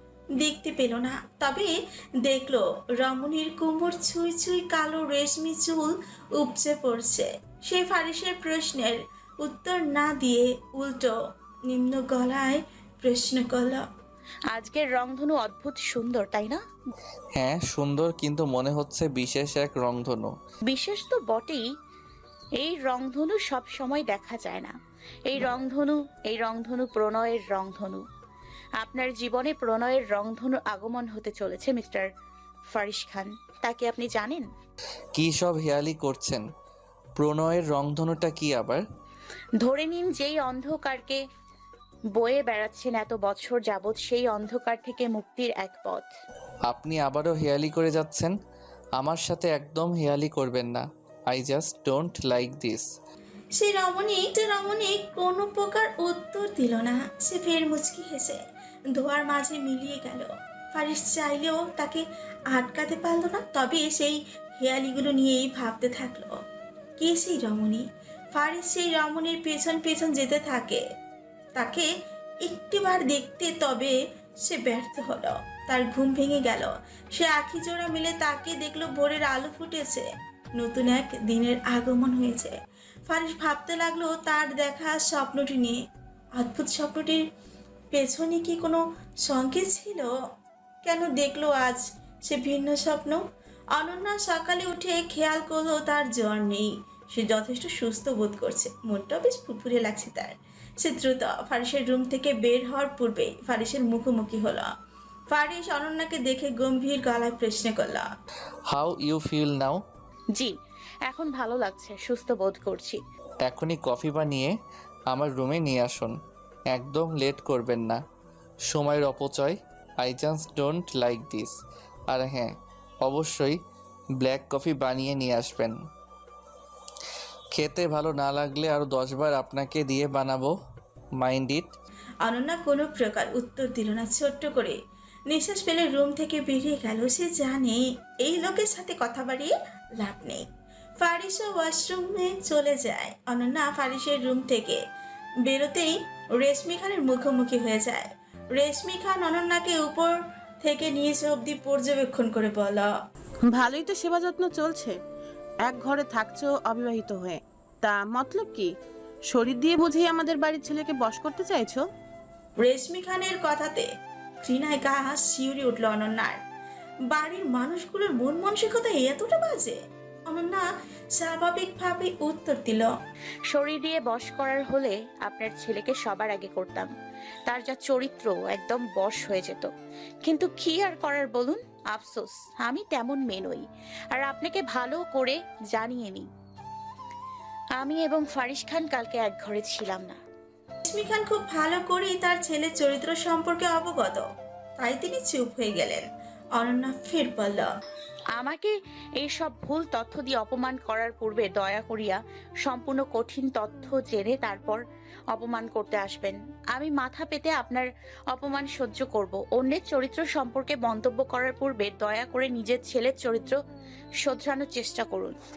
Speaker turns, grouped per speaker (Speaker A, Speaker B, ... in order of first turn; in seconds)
Speaker A: 0.4-11.2, 11.7-13.8, 53.6-58.4, 59.0-66.4, 67.0-70.8, 71.6-71.9, 72.4-82.6, 83.1-85.8, 86.4-87.2, 87.9-90.1, 90.8-93.2, 93.8-104.7, 105.3-108.1, 132.2-134.8, 135.3-140.4, 141.0-144.8, 145.5-152.9, 162.6-163.9, 164.4-166.4, 167.1-170.7, 171.2-172.9, 190.9-194.3, 194.8-196.1, 196.6-197.7
Speaker B: 14.5-16.6, 20.6-21.7, 22.6-28.1, 28.8-32.1, 32.7-34.5, 39.6-41.2, 42.2-46.1, 111.1-113.0, 173.5-176.9, 177.5-179.7, 180.2-186.3, 187.8-190.2, 198.4-204.8, 205.3-213.6, 214.2-215.4
Speaker C: 17.4-20.3, 35.1-36.4, 37.2-38.8, 46.7-48.4, 49.0-52.9, 108.7-109.8, 113.5-114.5, 115.1-116.2, 116.7-118.0, 118.7-121.6, 122.1-122.5, 123.0-123.6, 124.2-125.8, 127.5-130.5, 131.2-131.7
Speaker D: 153.5-154.6, 155.7-156.2, 156.8-157.0, 157.8-158.6, 159.3-161.6